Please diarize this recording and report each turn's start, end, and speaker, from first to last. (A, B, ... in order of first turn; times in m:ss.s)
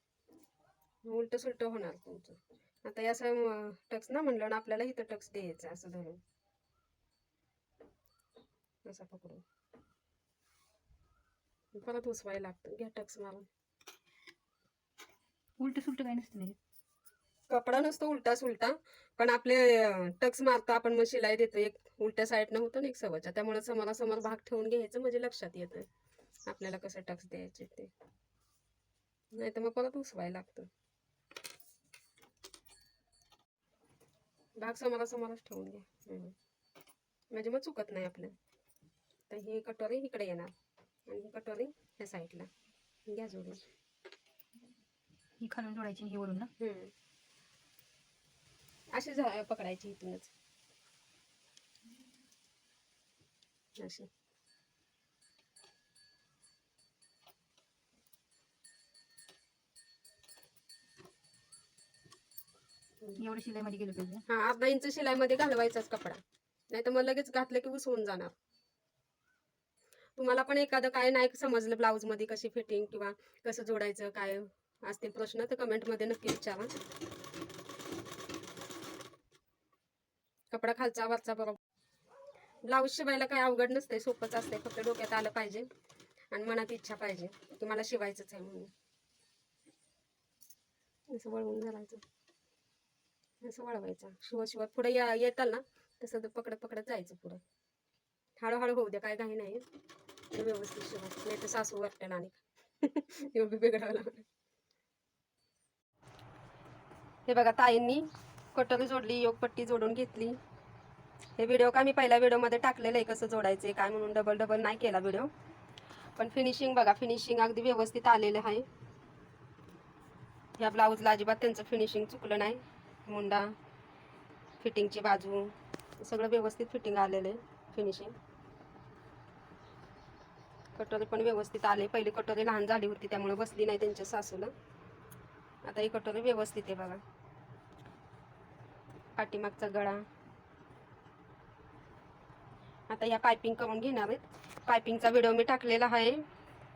0:01.0-0:06.2 A
0:08.8-0:09.4 A
0:11.7-0:13.4 A
0:15.6-0:16.6 B
0:17.5-0:25.9 A
0:26.5-0:27.9 A
0:29.3-0:30.7 A
0:34.6-0:36.3 A
0:37.3-0:38.3 A
0:39.3-0:40.5 A
0:41.1-0:42.5 A
0:43.1-0:43.6 A
0:45.4-0:46.5 B
0:46.6-0:46.9 A
0:48.9-0:50.3 A
0:53.8-0:54.1 A
1:03.1-1:04.2 B
1:04.3-1:08.3 A
1:10.2-1:16.7 A
1:20.5-1:21.6 A
1:22.6-1:25.7 A
1:26.3-1:28.7 A
1:31.1-1:32.0 A
1:33.4-1:37.4 A
1:38.4-1:39.6 A
1:40.3-1:44.2 A
1:47.3-1:50.4 A
1:51.4-1:55.3 A
1:56.2-1:58.6 A
2:00.6-2:03.5 A
2:04.6-2:08.1 A
2:10.7-2:14.5 A
2:15.6-2:17.0 A
2:19.2-2:20.0 A
2:22.9-2:26.2 A